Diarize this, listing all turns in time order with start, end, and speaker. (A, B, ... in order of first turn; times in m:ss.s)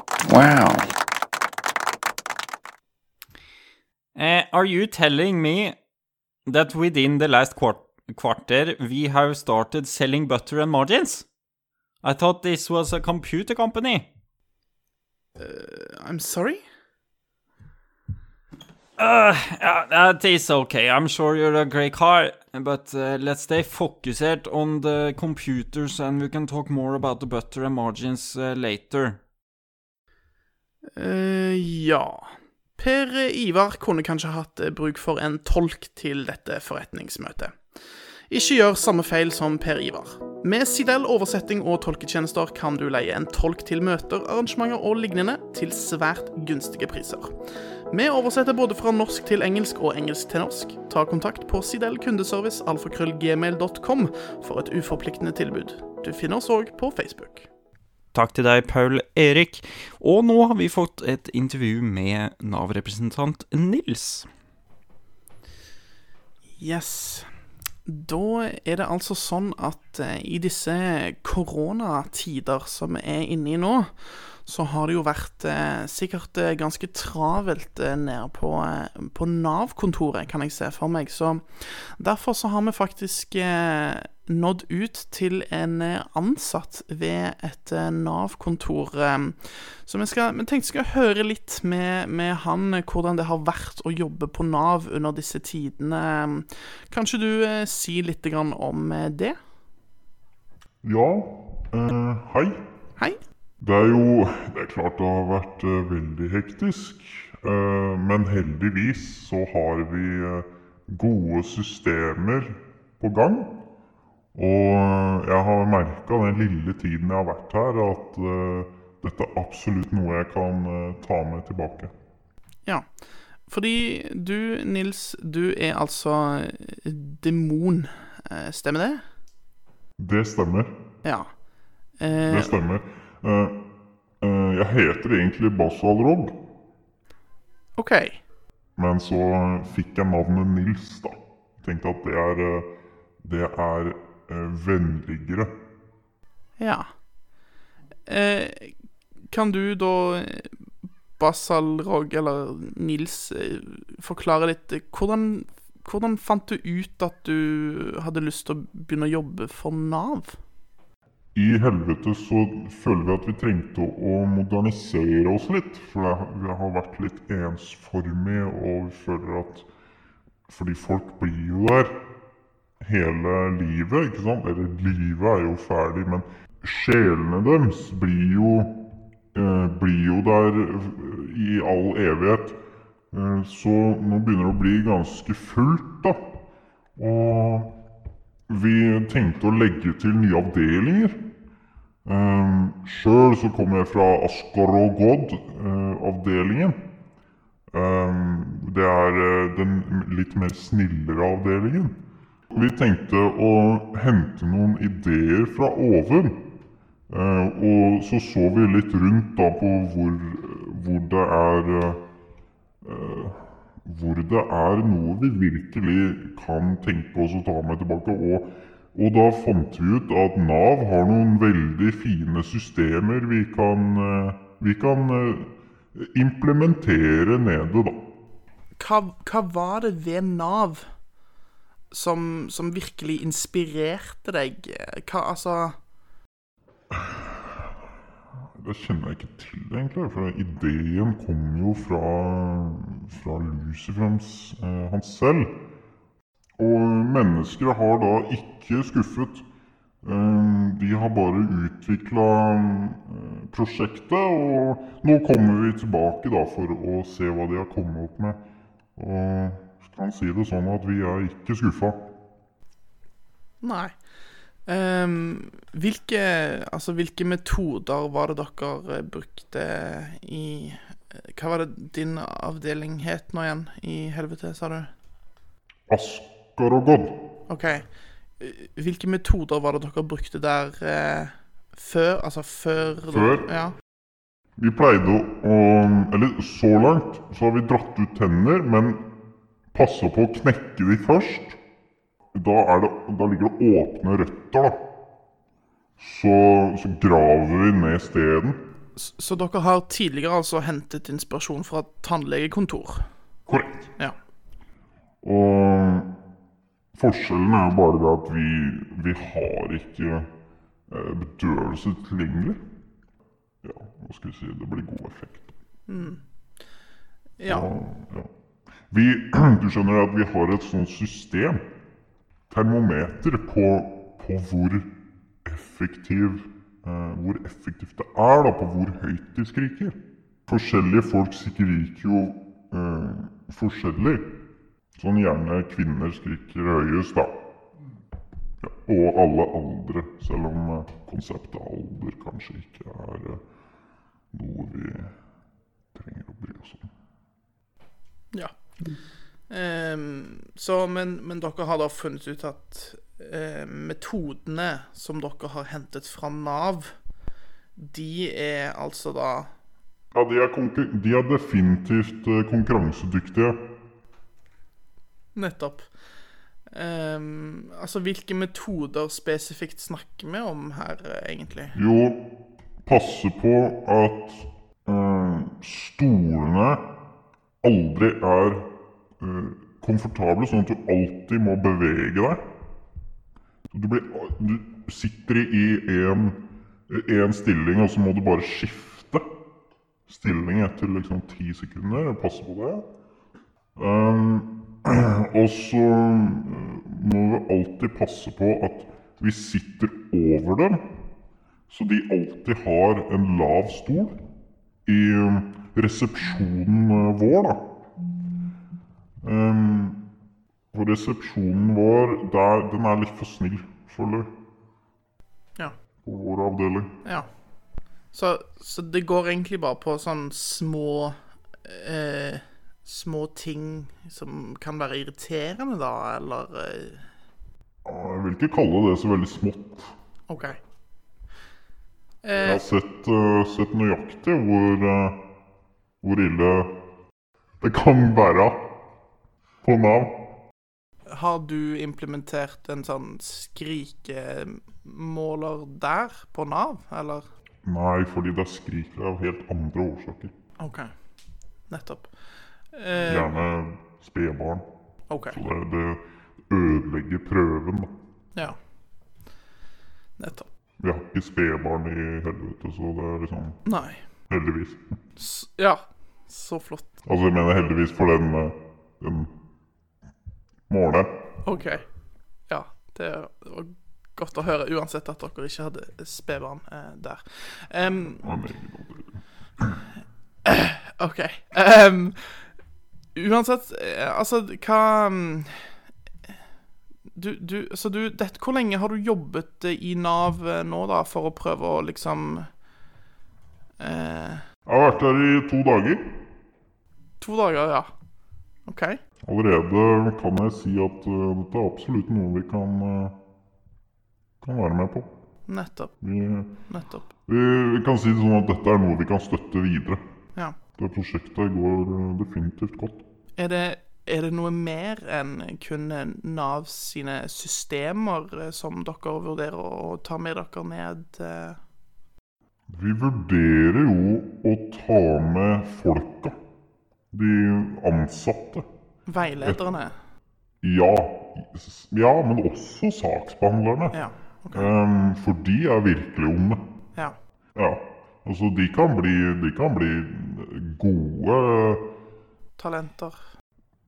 0:00.2-0:00.9 A
0:04.1-0:05.8 A
0:06.5-0:11.3 A
0:12.0-0:14.1 A
0:15.4-0:16.6 B
0:19.0-0:29.2 A
0:31.0-0:37.6 B
0:38.3-0:47.4 B
0:47.9-0:57.5 B
0:58.1-1:04.3 A
1:06.6-1:07.3 B
1:07.8-1:39.4 B
1:40.8-1:42.6 C
1:43.6-1:53.6 C
1:54.3-2:01.9 C
2:03.5-2:09.0 B
2:10.0-2:10.8 C
2:11.0-2:11.3 B
2:12.0-2:12.5 B
2:12.3-2:13.6 C
2:14.2-2:16.4 C
2:17.8-2:18.2 B
2:18.8-2:25.5 C
2:26.6-2:26.9 B
2:28.1-2:28.8 B
2:29.3-2:40.4 B
2:41.3-2:49.7 C
2:50.5-2:52.0 C
2:52.8-3:02.6 C
3:03.1-3:06.4 C
3:07.0-3:07.8 C
3:08.5-3:11.3 C
3:12.0-3:16.9 C
3:17.7-3:26.5 C
3:27.1-3:32.0 C
3:32.8-3:48.1 C
3:48.8-3:50.8 B
3:51.9-3:55.8 B
3:56.9-3:57.8 C
3:58.4-4:05.6 C
4:06.6-4:09.4 C
4:10.0-4:18.4 C
4:19.0-4:22.1 C
4:23.6-4:23.9 B
4:24.7-4:34.9 B
4:35.9-4:37.2 C
4:37.5-4:37.9 B
4:38.4-4:43.7 B
4:43.1-4:43.5 C
4:44.6-4:49.1 C
4:49.7-4:51.6 C
4:52.3-4:54.8 C
4:56.0-4:58.6 C
4:59.0-5:03.1 B
5:03.5-5:03.9 C
5:05.2-5:06.1 C
5:06.9-5:10.3 C
5:10.9-5:12.6 C
5:13.6-5:15.5 C
5:15.9-5:16.2 B
5:17.4-5:17.7 B
5:17.4-5:18.3 C
5:18.9-5:21.7 C
5:22.5-5:34.4 C
5:34.9-5:37.4 C
5:38.6-5:43.4 C
5:44.3-5:45.1 C
5:45.9-5:46.9 C
5:49.5-5:56.9 B
5:57.8-5:59.5 B
6:00.1-6:03.6 C
6:05.3-6:05.9 B
6:06.7-6:11.8 B
6:11.8-6:12.3 C
6:12.8-6:16.9 C
6:17.6-6:22.4 C
6:23.7-6:29.3 C
6:30.1-6:32.9 C
6:33.8-6:40.9 C
6:41.7-6:44.2 C
6:44.8-6:47.8 C
6:49.2-6:50.0 C
6:50.7-6:54.3 C
6:56.0-6:56.9 C
6:58.1-7:07.0 B
7:07.8-7:09.9 C
7:10.3-7:10.6 B
7:12.2-7:12.6 B
7:12.4-7:15.2 C
7:16.0-7:16.8 C
7:17.6-7:18.7 C
7:19.6-7:20.2 C
7:21.1-7:27.2 B
7:27.6-7:30.3 C
7:30.6-7:30.9 B
7:31.7-7:32.1 B
7:32.7-7:33.3 B
7:33.0-7:34.6 C
7:35.1-7:35.4 B
7:35.2-7:37.9 C
7:40.2-7:40.5 B
7:40.8-7:43.6 C
7:43.6-7:44.0 B
7:44.3-7:44.8 C
7:45.2-7:46.9 B
7:47.0-7:49.3 C
7:50.7-7:51.1 C
7:51.4-7:51.8 B
7:52.5-7:58.2 B
7:58.2-7:59.8 C
8:00.4-8:02.5 B
8:03.1-8:05.7 B
8:07.1-8:12.5 B
8:13.8-8:14.4 B
8:14.6-8:16.2 C
8:17.2-8:17.9 B
8:18.6-8:19.0 B
8:19.2-8:23.2 C
8:24.4-8:25.1 C
8:25.5-8:25.9 B
8:26.0-8:26.5 C
8:26.7-8:27.1 B
8:27.2-8:30.0 C
8:30.7-8:33.1 C
8:33.4-8:41.6 B
8:42.7-8:46.4 C
8:47.1-8:48.7 C
8:49.1-8:50.0 B
8:50.6-8:54.0 C
8:53.9-8:54.7 B
8:54.5-8:56.6 C
8:57.6-9:01.9 C
9:02.6-9:03.2 B